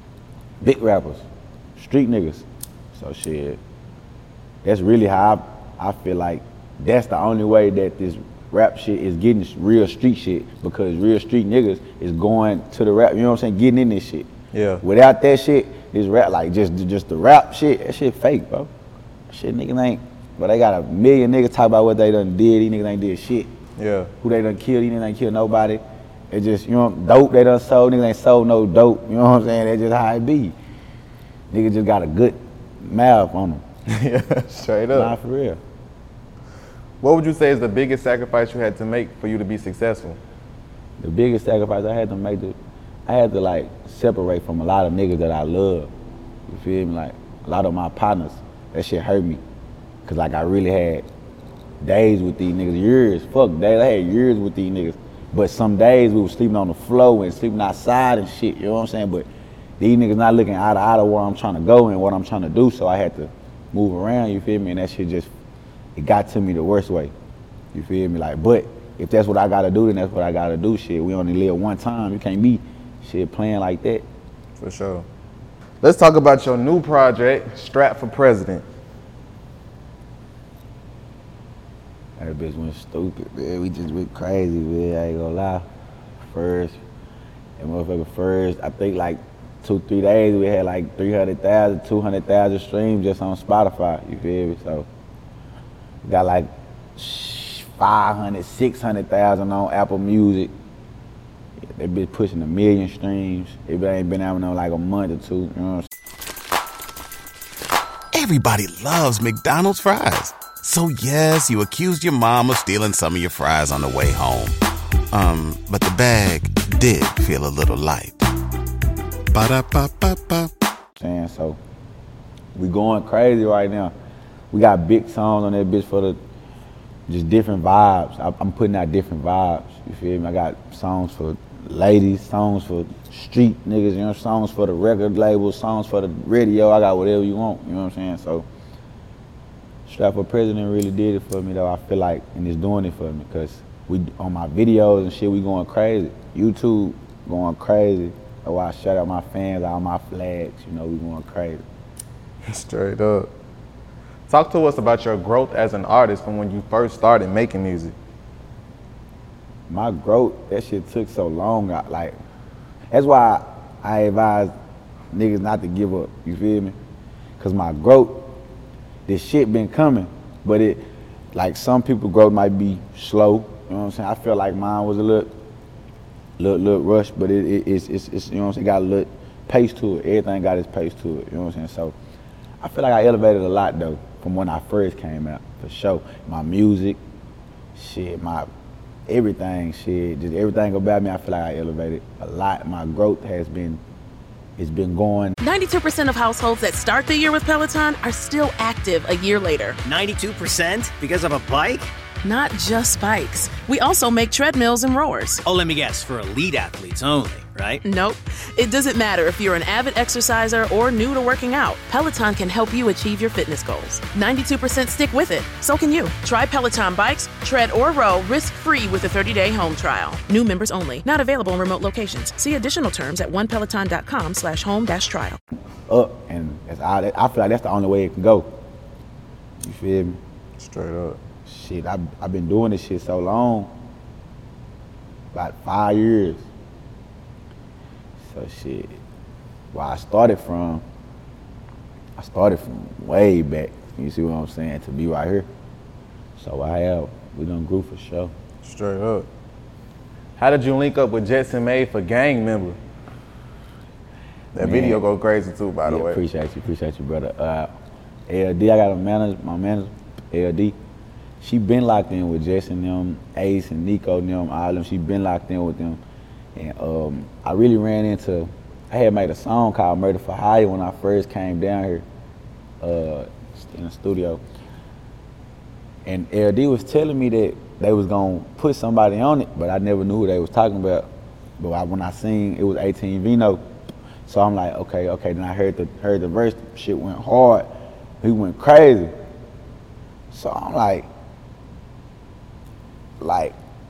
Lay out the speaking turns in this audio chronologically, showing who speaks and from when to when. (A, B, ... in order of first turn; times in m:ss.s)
0:00.6-0:03.6 A
0:04.6-0:14.3 A
0:14.5-0:14.8 B
0:14.8-0:18.7 A
0:19.3-0:23.5 A
0:23.8-0:24.1 B
0:24.2-0:30.6 A
0:31.5-0:33.6 A
0:33.9-0:35.1 B
0:34.9-0:35.6 A
0:37.0-0:40.2 B
0:41.0-0:45.9 A
0:46.5-0:49.4 A
0:50.0-0:51.1 A
0:51.8-0:59.3 A
0:59.8-1:05.3 A
1:06.0-1:07.1 A
1:07.7-1:14.0 A
1:14.6-1:15.1 B
1:15.8-1:18.6 B
1:22.2-1:25.7 A
1:26.2-1:26.8 A
1:27.6-1:34.9 A
1:36.0-1:40.5 A
1:41.6-1:45.9 A
1:48.1-1:54.6 C
1:55.1-1:58.2 C
1:59.3-2:00.5 C
2:01.0-2:01.6 A
2:02.6-2:03.9 A
2:04.5-2:06.2 A
2:07.1-2:18.5 A
2:19.9-2:31.6 A
2:32.5-2:33.3 B
2:34.3-2:38.0 B
2:39.7-2:42.2 A
2:42.9-2:44.5 A
2:45.1-2:46.8 A
2:47.4-2:48.4 A
2:49.1-2:55.3 A
2:56.4-3:02.0 A
3:02.6-3:07.0 A
3:07.8-3:08.5 A
3:09.1-3:13.8 A
3:14.6-3:15.4 A
3:15.4-3:19.8 D
3:19.8-3:21.9 E
3:22.2-3:25.4 D
3:25.4-3:27.8 E
3:27.8-3:45.4 D
3:45.9-3:48.6 A
3:49.6-3:50.2 A
3:50.6-3:51.2 B
3:51.5-3:53.7 A
3:55.3-3:56.4 A
3:58.2-3:59.0 A
3:59.7-4:00.8 A
4:02.2-4:05.5 A
4:06.4-4:08.3 A
4:08.6-4:09.3 B
4:10.4-4:12.8 B
4:14.5-4:16.2 B
4:14.6-4:15.0 A
4:15.9-4:17.7 A
4:18.3-4:20.8 A
4:21.4-4:26.0 A
4:26.6-4:32.0 A
4:32.8-4:34.4 A
4:36.0-4:43.6 A
4:44.3-4:47.7 A
4:48.2-4:49.1 A
4:50.3-4:51.1 A
4:53.2-4:53.6 A